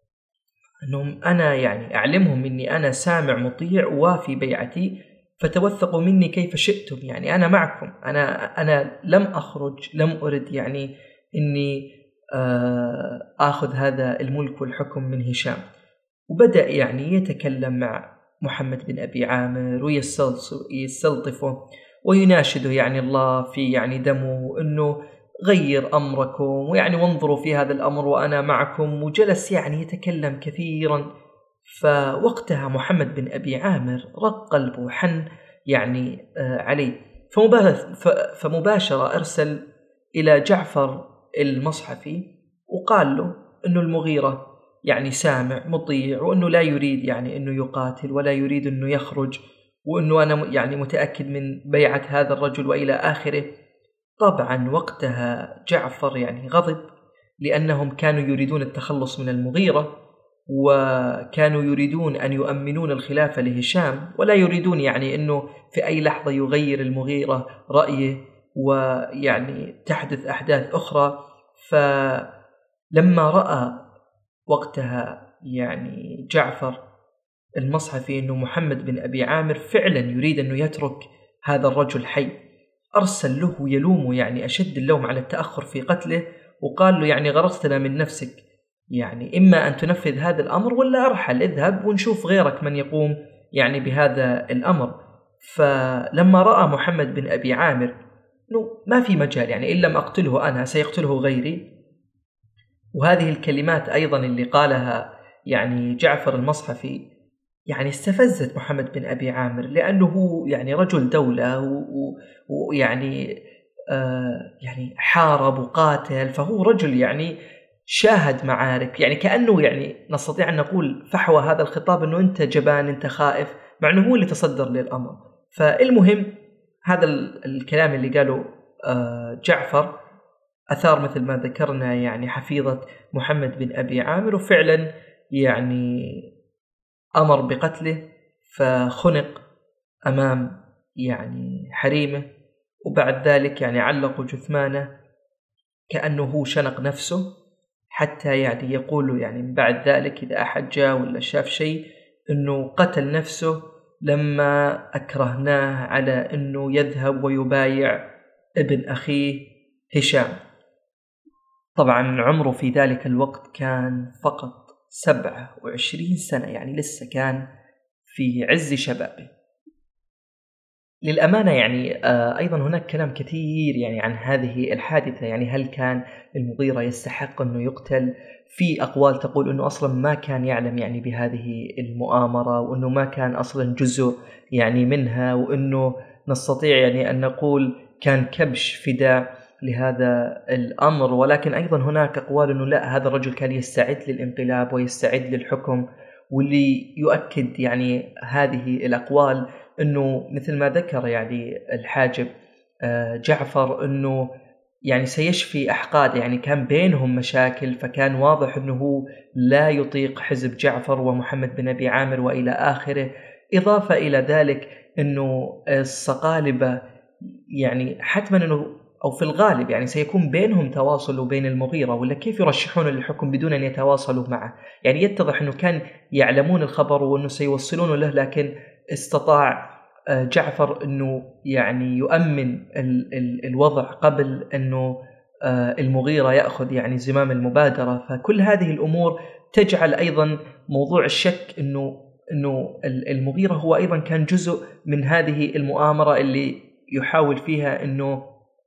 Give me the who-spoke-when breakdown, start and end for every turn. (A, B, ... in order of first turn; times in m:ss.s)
0:00.9-0:15.6 A
0:16.3-0:31.1 A
0:31.7-0:39.6 A
0:40.2-0:53.5 A
0:54.2-0:56.8 A
0:57.4-0:59.9 A
1:00.5-1:12.3 A
1:12.9-1:13.8 A
1:14.5-1:16.8 A
1:17.6-1:22.3 A
1:23.0-1:28.4 A
1:28.9-1:37.9 A
1:38.5-1:41.6 A
1:42.9-1:47.0 A
1:47.7-1:53.3 A
1:53.9-2:06.3 A
2:06.8-2:09.9 A
2:10.7-2:16.3 A
2:17.2-2:19.4 A
2:20.1-2:22.2 A
2:22.8-2:24.9 A
2:25.9-2:27.2 A
2:27.9-2:38.0 A
2:38.6-2:40.4 A
2:41.8-2:47.4 A
2:48.1-2:49.3 A
2:51.0-3:22.3 A
3:22.8-3:24.3 A
3:24.9-3:36.8 A
3:37.6-4:08.2 A